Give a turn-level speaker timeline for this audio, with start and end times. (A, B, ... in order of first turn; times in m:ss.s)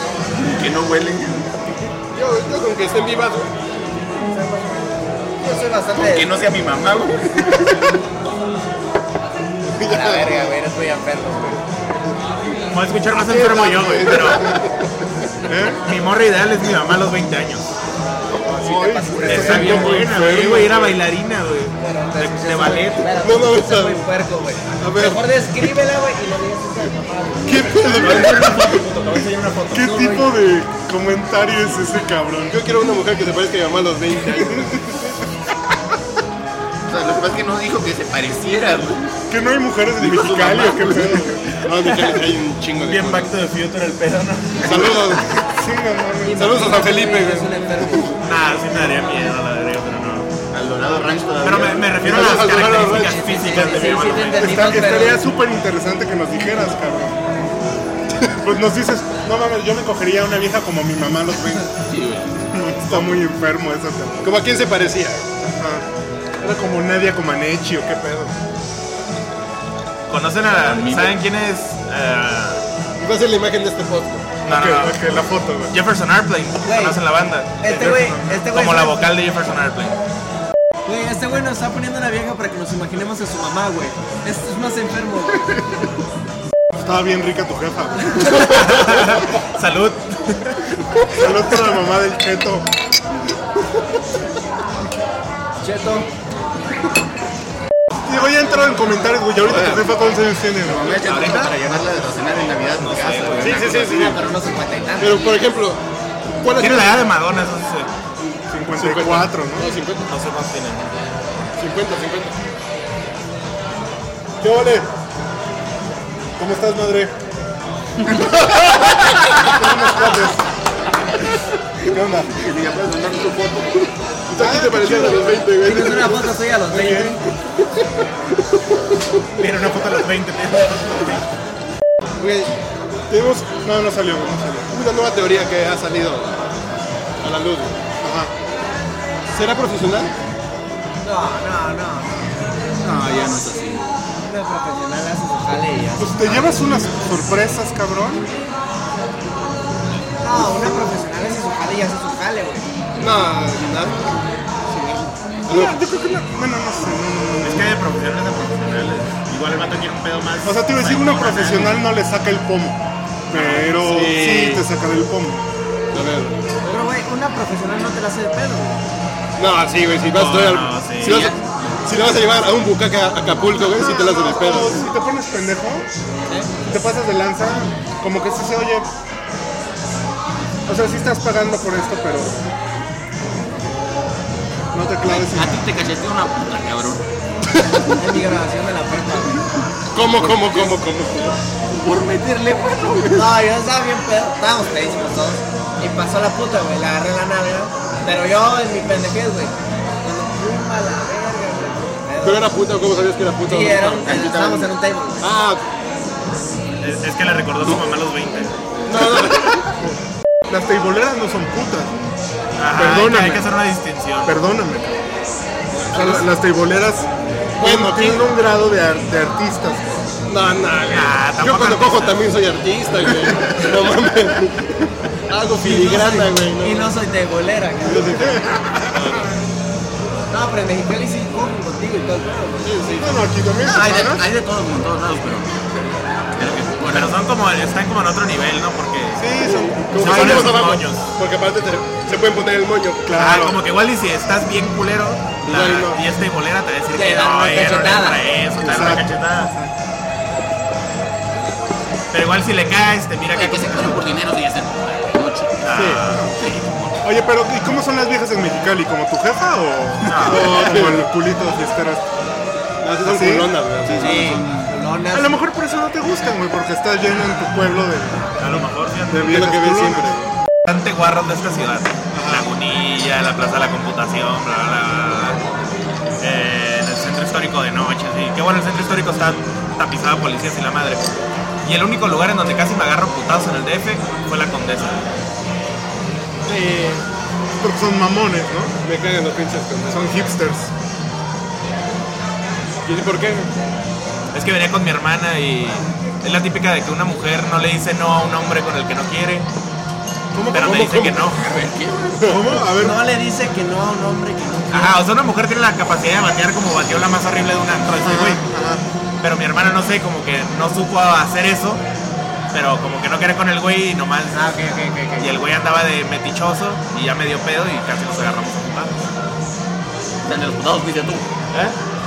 0:00.3-0:01.6 A
0:02.1-0:03.5 B
0:04.3-0:06.4 C
0:05.9-0:07.9 A
0:09.6-0:10.5 B
0:09.8-0:11.6 C
0:12.7-0:14.5 D
0:13.1-0:15.0 B
0:15.4-0:15.8 E
0:15.8-0:17.6 D
0:18.4-0:20.2 C
0:18.4-0:21.0 E
0:19.2-0:23.1 D
0:21.8-0:28.1 C
0:23.1-0:24.0 B
0:24.8-0:25.6 B
0:27.4-0:28.8 E
0:27.8-0:28.3 B
0:27.9-0:29.9 D
0:29.7-0:32.6 E
0:29.8-0:30.3 C
0:32.5-0:34.8 B
0:34.3-0:35.2 E
0:36.9-0:39.1 A
0:39.3-0:41.6 E
0:40.0-0:41.3 A
0:41.5-0:42.2 D
0:41.6-0:43.4 B
0:42.8-0:45.0 D
0:44.6-0:45.3 B
0:44.6-0:45.4 A
0:45.3-0:46.7 E
0:46.2-0:48.1 C
0:46.4-0:48.1 B
0:48.2-0:50.3 D
0:50.5-0:52.1 A
0:51.4-0:54.9 D
0:52.0-0:53.8 B
0:52.8-0:55.2 C
0:54.4-0:57.2 E
0:58.4-1:01.7 E
1:01.9-1:02.4 A
1:02.5-1:04.3 E
1:02.8-1:03.2 B
1:04.2-1:05.2 B
1:05.4-1:05.8 E
1:06.4-1:08.3 E
1:10.1-1:12.6 D
1:10.6-1:11.2 A
1:13.0-1:14.3 B
1:14.4-1:15.7 E
1:14.4-1:20.0 D
1:16.6-1:17.0 C
1:17.6-1:19.0 C
1:17.7-1:18.4 E
1:20.8-1:25.6 C
1:26.8-1:28.5 E
1:28.2-1:30.6 D
1:31.1-1:32.7 E
1:35.6-1:36.1 C
1:38.0-1:41.0 E
1:39.4-1:39.8 A
1:40.6-1:43.7 A
1:41.0-1:41.5 D
1:42.6-1:44.1 D
1:43.4-1:44.2 B
1:43.6-1:45.3 C
1:45.0-1:45.8 B
1:46.3-1:47.1 B
1:46.6-1:47.9 D
1:48.5-1:49.7 E
1:48.7-1:50.1 B
1:50.0-1:50.9 D
1:51.6-1:52.3 B
1:54.4-1:54.9 E
1:56.4-1:57.1 E
1:59.4-2:00.5 E
2:01.8-2:02.4 E
2:02.3-2:03.9 A
2:04.3-2:06.4 B
2:04.4-2:05.4 E
2:05.6-2:07.2 C
2:06.7-2:07.2 E
2:09.4-2:11.2 D
2:12.2-2:12.5 B
2:13.1-2:14.7 E
2:14.7-2:16.4 B
2:17.2-2:17.8 B
2:18.0-2:18.3 E
2:19.3-2:20.1 B
2:21.0-2:22.4 C
2:22.8-2:24.0 A
2:24.2-2:26.7 C
2:26.0-2:28.2 E
2:30.2-2:32.7 C
2:33.0-2:34.2 B
2:34.7-2:35.8 B
2:35.5-2:37.8 E
2:37.4-2:41.9 D
2:40.4-2:45.4 E
2:43.3-2:43.7 D
2:43.6-2:44.7 B
2:45.9-2:46.8 B
2:46.6-2:48.8 C
2:49.4-2:54.8 B
2:50.0-2:51.3 D
2:51.0-2:51.4 A
2:53.7-2:55.9 E
2:56.3-2:56.5 C
2:56.7-2:58.9 E
3:00.6-3:02.4 E
3:04.7-3:05.6 E
3:05.0-3:07.0 A
3:08.0-3:09.4 C
3:09.9-3:11.4 B
3:10.2-3:10.9 C
3:11.7-3:13.3 A
3:13.1-3:22.5 C
3:22.2-3:24.2 B
3:23.5-3:25.3 C
3:24.0-3:24.7 A
3:25.2-3:25.6 B
3:26.8-3:28.6 D
3:28.8-3:29.6 B
3:30.5-3:31.9 E
3:32.6-3:34.4 D
3:32.7-3:33.5 E
3:34.2-3:35.0 E
3:35.8-3:36.3 B
3:35.9-3:40.0 E
3:37.6-3:38.3 B
3:40.2-3:44.7 B
3:40.8-3:42.2 D
3:45.3-3:47.0 B
3:45.6-3:48.4 C
3:47.8-3:49.3 B
3:48.4-3:49.2 E
3:50.3-3:52.7 C
3:52.6-3:53.2 B
3:53.0-3:54.2 E
3:53.6-3:57.2 A
3:56.8-3:59.4 D
3:59.2-4:00.6 E
3:59.4-4:03.1 B
3:59.9-4:01.0 D
4:03.0-4:03.6 E
4:03.1-4:09.5 D
4:05.4-4:06.0 B
4:06.9-4:08.3 C
4:08.6-4:09.7 E
4:12.1-4:14.1 D
4:13.3-4:15.7 A
4:15.6-4:16.3 D
4:15.7-4:16.4 E
4:16.2-4:17.0 A
4:17.0-4:22.0 E
4:20.0-4:20.7 D
4:20.2-4:21.1 B
4:22.8-4:24.4 B
4:23.0-4:23.6 E
4:23.9-4:24.7 A
4:23.9-4:25.4 C
4:25.1-4:30.2 E
4:28.4-4:29.3 D
4:29.2-4:30.2 B
4:30.7-4:35.4 D
4:32.1-4:32.5 E
4:36.2-4:41.0 D
4:41.6-4:45.0 D
4:46.4-4:47.0 B
4:47.6-4:48.7 E
4:48.8-4:50.2 B
4:49.9-4:50.7 E
4:52.8-4:53.5 B
4:54.3-4:59.5 D
5:00.3-5:00.8 E
5:00.5-5:01.4 D
5:00.6-5:01.3 B
5:01.3-5:02.3 A
5:02.1-5:02.6 B
5:02.2-5:03.0 E
5:02.8-5:05.0 C
5:04.7-5:08.4 D
5:08.0-5:08.8 E
5:09.2-5:11.8 D
5:12.5-5:14.5 D
5:14.3-5:15.4 C
5:15.2-5:18.9 D
5:20.2-5:21.3 A